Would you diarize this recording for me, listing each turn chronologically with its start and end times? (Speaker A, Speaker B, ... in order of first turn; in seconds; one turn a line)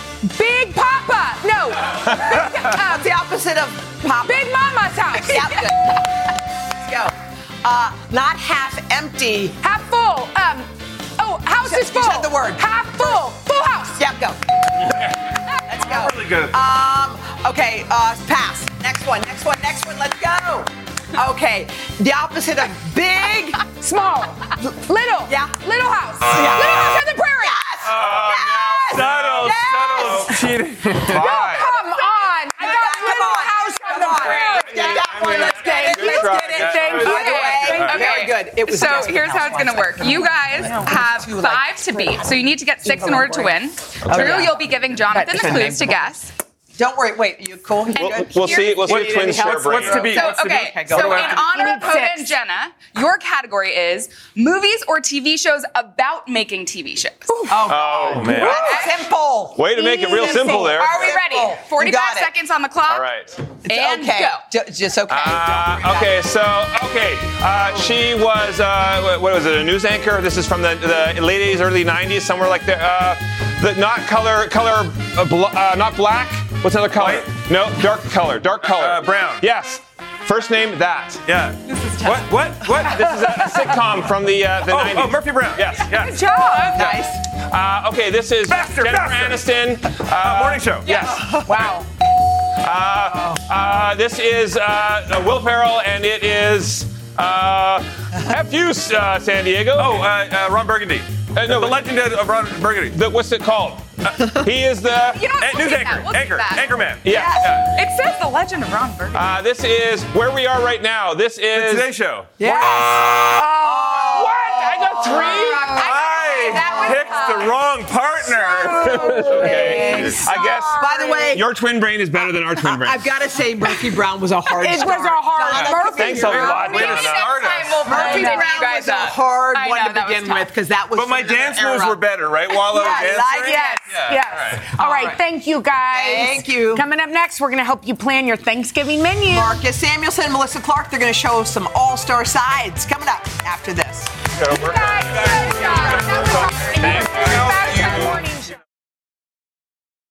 Speaker A: 0.2-3.1
Speaker B: 2.3-4.5
Speaker A: 4.2-5.7
Speaker B: 5.1-6.2
Speaker B: 6.8-9.6
Speaker A: 9.6-14.0
Speaker B: 11.6-13.2
Speaker B: 14.0-15.0
Speaker B: 15.7-23.6
Speaker C: 15.8-16.5
Speaker A: 23.6-29.2
Speaker B: 25.3-25.6
Speaker B: 26.3-27.9
Speaker D: 27.9-30.4
Speaker C: 27.9-28.3
Speaker C: 28.8-31.7
Speaker B: 29.3-30.3
Speaker A: 31.0-38.2
Speaker D: 31.1-31.4
Speaker B: 32.6-42.1
Speaker E: 32.6-33.2
Speaker E: 33.8-35.1
Speaker D: 35.2-37.4
Speaker C: 35.3-38.1
Speaker E: 36.2-46.3
Speaker A: 42.9-43.3
Speaker D: 44.1-44.4
Speaker B: 44.1-44.6
Speaker A: 45.1-45.8
Speaker B: 45.2-46.0
Speaker B: 46.8-51.5
Speaker D: 47.9-50.2
Speaker E: 48.4-48.9
Speaker C: 48.8-51.4
Speaker E: 50.0-57.6
Speaker A: 51.5-52.3
Speaker B: 57.5-62.3
Speaker D: 57.7-58.8
Speaker C: 58.1-58.8
Speaker E: 58.5-58.9
Speaker D: 59.5-61.2
Speaker E: 59.8-63.1
Speaker D: 62.9-63.5
Speaker B: 63.6-66.2
Speaker E: 63.7-64.5
Speaker D: 65.1-81.3
Speaker C: 77.0-77.3
Speaker C: 78.6-79.5
Speaker C: 81.3-83.7
Speaker D: 82.6-85.9
Speaker C: 84.7-86.2
Speaker E: 86.0-86.9
Speaker B: 86.6-87.2
Speaker C: 86.8-87.0
Speaker D: 87.5-91.3
Speaker C: 88.5-89.4
Speaker C: 90.0-91.7
Speaker A: 91.5-91.8
Speaker D: 92.6-100.0
Speaker C: 99.8-103.0
Speaker D: 101.3-101.9
Speaker D: 102.9-105.2
Speaker E: 105.1-106.9
Speaker C: 105.4-107.7
Speaker D: 107.0-107.6
Speaker B: 107.1-107.5
Speaker E: 107.5-109.2
Speaker D: 109.1-111.9
Speaker C: 111.5-112.3
Speaker B: 112.4-117.0
Speaker D: 112.4-113.1
Speaker A: 112.7-117.6
Speaker E: 115.1-117.6
Speaker C: 115.7-119.5
Speaker A: 118.2-121.4
Speaker D: 118.8-123.1
Speaker B: 118.8-121.5
Speaker E: 119.7-120.2
Speaker B: 122.6-126.8
Speaker A: 124.5-127.0
Speaker C: 125.5-127.9
Speaker D: 126.0-127.7
Speaker E: 126.2-130.5
Speaker B: 127.9-132.0
Speaker A: 127.9-128.5
Speaker C: 130.9-134.8
Speaker B: 132.5-133.8
Speaker A: 133.5-139.6
Speaker B: 134.8-135.2
Speaker B: 135.9-136.8
Speaker B: 139.3-144.2
Speaker D: 144.4-148.2
Speaker A: 144.4-148.6